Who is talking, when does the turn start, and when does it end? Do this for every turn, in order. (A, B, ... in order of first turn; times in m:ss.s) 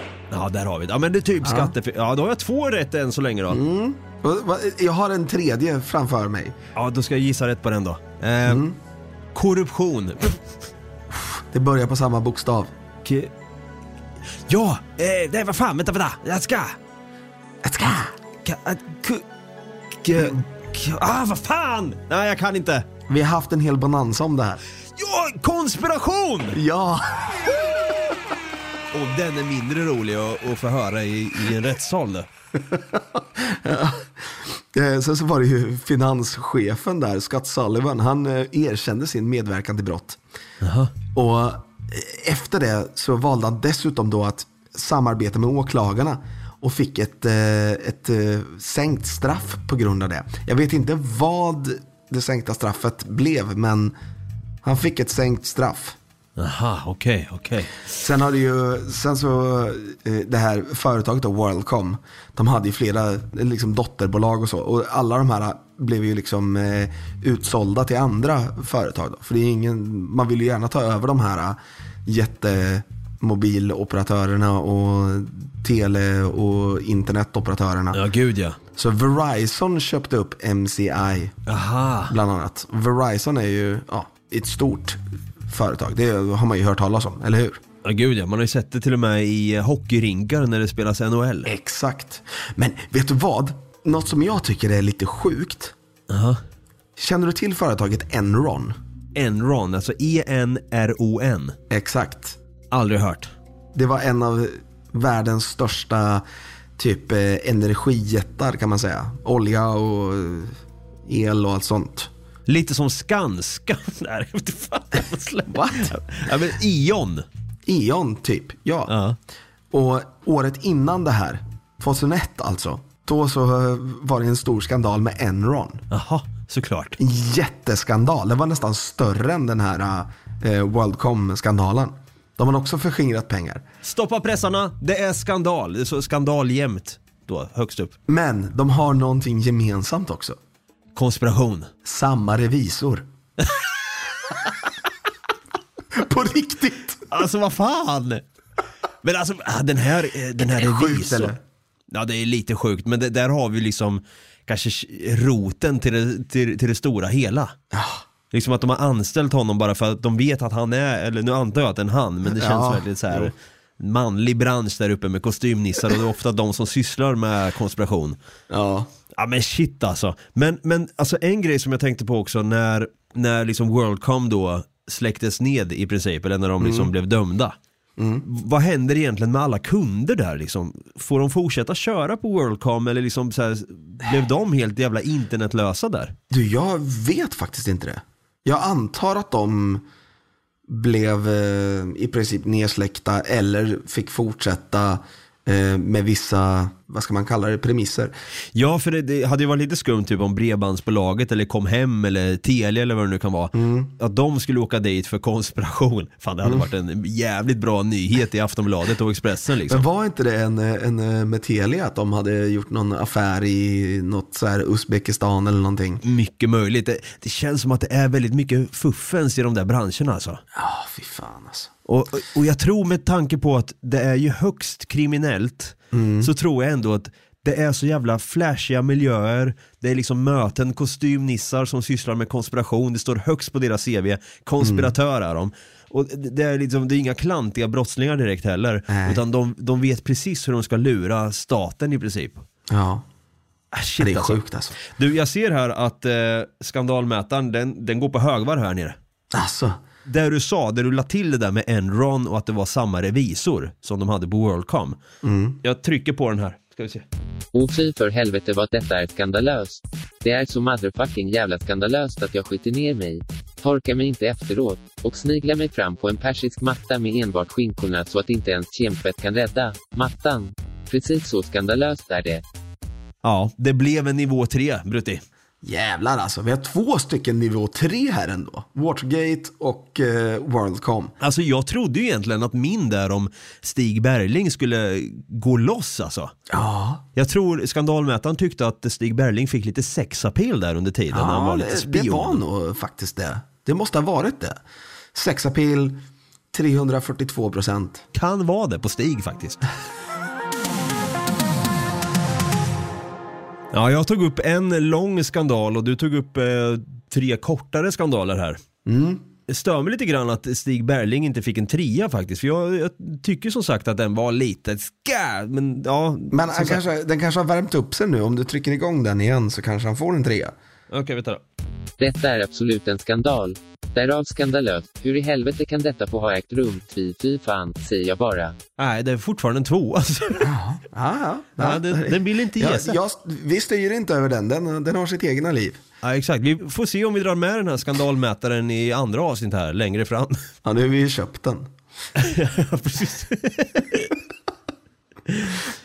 0:00.3-0:03.6 A
0:01.4-0:01.7 B
0:03.5-0:06.5 B
0:06.7-0:08.6 A
0:08.4-0:08.8 B
0:09.3-0:10.4 A
0:11.1-0:12.7 B
0:13.0-0:13.3 A
0:14.5-0:16.8 A
0:17.6-0:18.2 B
0:18.4-0:19.2 A
0:20.0-0:22.9 A
0:23.1-0:24.6 B
0:25.0-0:26.6 A
0:26.5-0:27.5 B
0:28.9-0:32.3 A
0:32.7-0:40.2 B
0:40.6-0:40.9 A
0:41.1-0:53.9 B
0:54.6-0:56.0 B
0:56.4-0:57.7 A
0:57.9-1:18.0 B
1:17.9-1:18.6 A
1:18.7-1:21.4 B
1:21.5-1:22.1 A
1:22.1-1:27.6 B
1:27.8-1:31.5 A
1:31.4-1:35.7 B
1:36.1-1:36.4 A
1:37.0-1:38.8 B
1:39.1-1:41.6 A
1:41.7-1:42.4 B
1:42.7-1:43.3 A
1:43.7-1:46.2 B
1:46.8-1:52.1 B
1:52.5-1:57.2 A
1:55.5-1:56.0 B
1:57.6-1:58.9 B
1:58.9-1:59.2 A
1:59.7-2:05.8 B
2:05.9-2:07.0 A
2:07.0-2:13.6 B
2:13.8-2:17.9 A
2:18.1-2:20.4 B
2:20.9-2:21.7 A
2:21.8-2:23.0 B
2:25.9-2:27.0 B
2:27.1-2:28.2 A
2:29.0-2:31.3 A
2:30.4-2:31.4 B
2:31.9-2:37.5 A
2:37.7-2:38.0 B
2:38.3-2:48.2 A
2:42.2-2:43.3 B
2:48.5-2:48.9 B
2:49.2-2:57.6 A
2:56.6-2:56.9 B
2:58.0-2:58.2 B
2:58.2-3:06.1 A
3:06.3-3:09.8 B
3:10.7-3:18.1 B
3:18.5-3:29.8 A
3:23.5-3:23.9 B
3:29.7-3:36.0 B
3:36.0-3:40.4 A
3:40.5-3:41.7 B
3:41.9-4:02.4 A
3:45.9-3:46.3 B
3:54.6-3:54.9 B
3:58.9-3:59.2 B
4:02.7-4:03.0 B
4:03.7-4:09.0 A
4:04.0-4:04.8 B
4:09.3-4:09.8 B
4:10.0-4:15.0 A
4:15.2-4:15.6 B
4:15.6-4:17.0 A
4:17.5-4:32.4 C
4:33.2-4:35.2 A
4:35.6-4:41.1 B
4:41.2-4:46.3 A
4:46.5-4:47.0 B
4:47.1-4:52.4 A
4:51.1-4:54.6 B
4:55.1-4:56.0 B
4:56.5-4:58.0 B
4:58.1-4:59.6 A
5:03.7-5:08.6 A
5:08.8-5:09.2 B
5:09.5-5:16.8 A
5:16.3-5:20.5 B
5:20.9-5:21.4 A
5:22.0-5:28.6 C
5:28.8-5:30.5 A
5:30.4-5:35.8 B
5:31.6-5:33.0 A
5:36.0-5:40.4 A
5:40.6-5:41.7 B
5:42.2-5:44.1 A
5:45.3-5:45.6 A